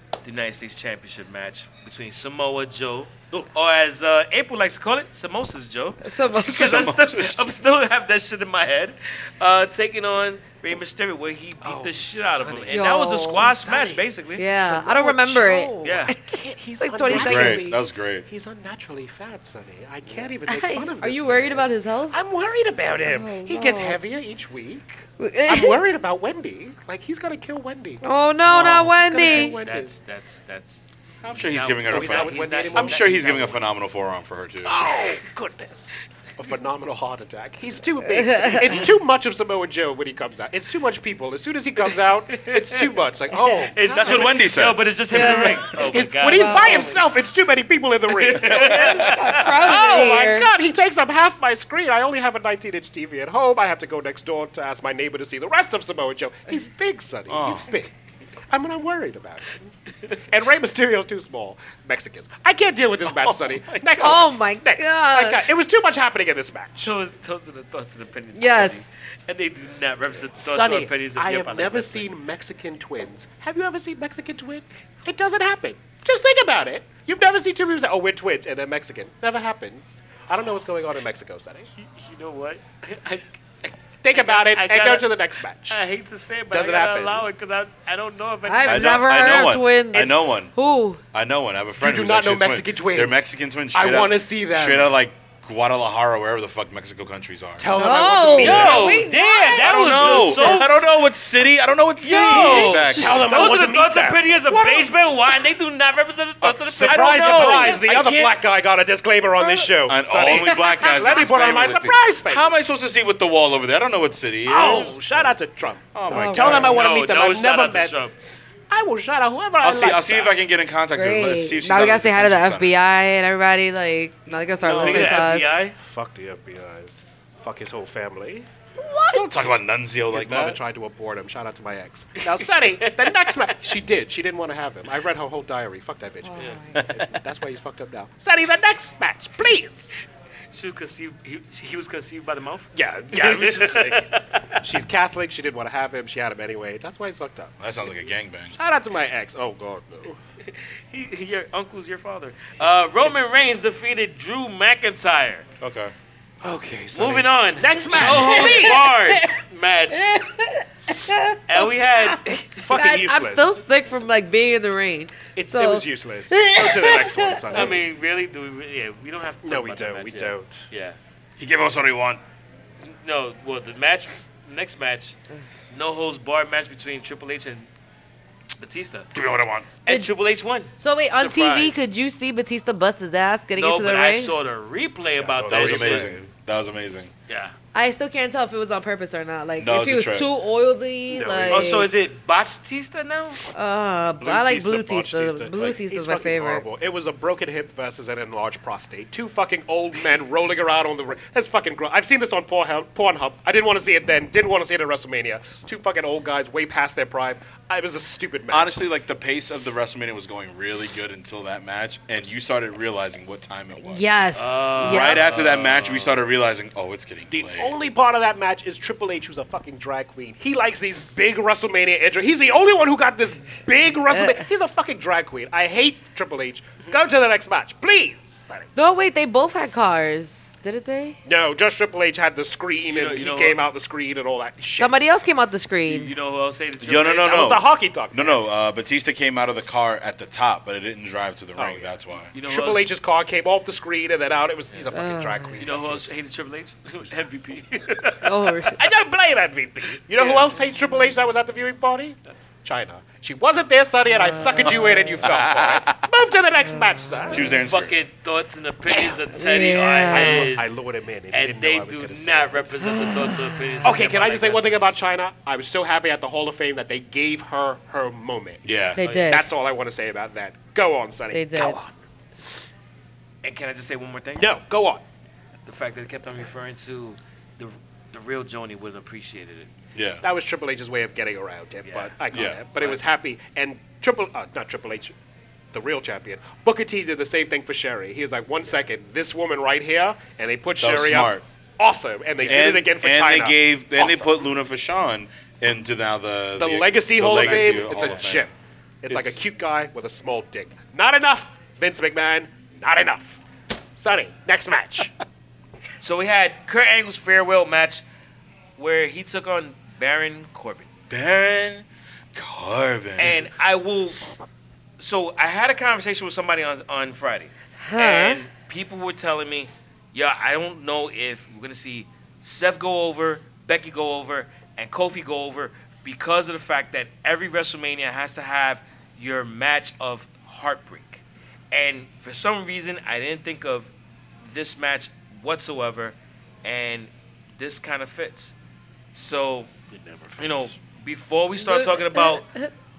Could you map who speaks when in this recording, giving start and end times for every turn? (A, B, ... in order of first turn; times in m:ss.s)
0:00.2-0:14.5 A
0:06.0-0:06.9 B
0:06.5-0:07.3 C
0:11.6-0:28.0 D
0:12.7-0:13.5 B
0:14.4-0:17.7 B
0:15.8-0:16.1 A
0:17.1-0:18.2 C
0:20.5-0:22.2 B
0:23.0-0:24.0 B
0:25.2-0:25.8 B
0:28.0-0:29.6 B
0:28.4-0:33.6 A
0:28.9-0:29.9 D
0:31.2-0:34.8 C
0:31.9-0:33.5 D
0:34.6-0:44.4 D
0:38.2-0:38.9 B
0:42.3-0:42.8 A
0:43.7-0:47.0 A
0:43.9-0:44.9 C
0:45.1-0:47.0 B
0:45.2-0:57.9 D
0:48.2-0:50.0 A
0:48.4-0:49.4 C
0:48.7-0:50.5 B
0:57.3-0:57.7 C
0:58.5-0:59.7 D
1:00.3-1:06.9 D
1:03.1-1:04.2 C
1:04.0-1:05.4 B
1:06.8-1:12.1 A
1:08.4-1:08.8 B
1:10.3-1:21.7 D
1:21.8-1:23.3 A
1:24.0-1:25.8 D
1:24.1-1:25.1 A
1:25.7-1:29.2 A
1:26.5-1:27.2 D
1:28.4-1:31.0 B
1:28.6-1:30.5 C
1:31.1-1:37.7 C
1:31.8-1:34.9 D
1:37.6-1:39.1 D
1:37.7-1:40.7 B
1:38.2-1:43.3 C
1:38.4-1:40.7 A
1:42.0-1:47.9 A
1:42.2-1:44.8 D
1:46.4-1:52.6 D
1:46.8-1:48.3 C
1:49.8-1:55.3 C
1:50.5-1:51.0 B
1:54.4-1:58.0 D
1:55.9-1:56.7 C
1:56.1-1:56.8 B
1:56.5-1:58.1 A
1:58.7-2:00.3 D
1:59.6-2:02.7 C
2:00.9-2:05.6 B
2:04.6-2:05.8 A
2:04.7-2:05.2 D
2:04.7-2:05.2 C
2:05.8-2:08.5 D
2:08.8-2:09.2 B
2:09.1-2:10.6 C
2:10.1-2:20.0 D
2:16.3-2:16.8 B
2:20.5-2:24.4 A
2:22.7-2:27.5 D
2:27.6-2:28.6 C
2:28.6-2:30.2 D
2:30.5-2:35.5 A
2:35.6-2:35.9 C
2:36.4-2:38.8 D
2:36.9-2:40.1 A
2:37.9-2:39.3 B
2:39.9-2:41.4 B
2:41.5-2:42.5 A
2:42.0-2:47.7 B
2:42.6-2:43.6 D
2:45.4-2:47.8 D
2:47.5-2:51.0 A
2:49.4-2:50.6 D
2:51.4-2:52.2 C
2:52.9-2:55.2 A
2:55.7-2:57.7 A
2:58.6-2:59.1 A
2:59.1-2:59.8 C
2:59.8-3:01.8 A
3:00.8-3:04.3 B
3:03.6-3:06.1 A
3:05.2-3:06.3 D
3:05.5-3:07.1 C
3:07.3-3:07.5 A
3:07.7-3:11.9 B
3:09.6-3:10.3 C
3:11.1-3:11.9 D
3:11.5-3:13.4 A
3:13.5-3:16.6 B
3:14.2-3:28.7 D
3:28.5-3:34.0 C
3:33.8-3:35.2 B
3:34.3-3:36.2 A
3:34.8-3:37.7 C
3:37.3-3:48.7 D
3:44.1-3:44.4 B
3:48.8-3:51.2 B
3:51.2-3:55.1 D
3:52.9-3:53.6 A
3:54.8-3:56.1 B
3:55.8-3:57.6 A
3:56.8-4:02.3 C
3:57.2-3:58.4 D
4:01.6-4:06.1 D
4:02.3-4:02.9 A
4:04.9-4:05.6 B
4:05.6-4:08.3 A
4:08.2-4:08.8 B
4:08.7-4:17.4 D
4:10.2-4:10.5 A
4:14.2-4:15.2 B
4:15.2-4:16.0 C
4:17.3-4:17.9 C
4:17.5-4:20.7 A
4:18.9-4:20.5 B
4:20.1-4:22.7 D
4:21.3-4:25.0 A
4:22.8-4:23.8 B
4:23.8-4:31.9 D
4:28.6-4:29.0 C
4:29.0-4:29.4 B
4:29.0-4:29.3 A
4:31.3-4:31.8 B
4:33.4-4:34.5 A
4:34.4-4:35.0 D
4:35.7-4:39.7 A
4:39.9-4:40.2 C
4:40.2-4:45.1 D
4:41.8-4:42.1 A
4:42.3-4:42.6 C
4:45.7-4:54.4 D
4:50.8-4:51.4 C
4:52.4-4:58.5 C
4:56.6-4:58.5 D
4:57.4-4:58.2 A
4:59.0-5:03.4 D
4:59.1-4:59.4 C
5:04.0-5:05.1 D
5:06.0-5:08.0 A
5:08.8-5:10.9 A
5:11.1-5:13.4 C
5:13.2-5:14.2 A
5:15.0-5:33.9 A
5:17.8-5:18.4 B
5:34.4-5:38.5 A
5:39.1-5:39.7 A
5:40.0-5:40.4 D
5:40.4-5:42.4 A
5:41.6-5:42.7 B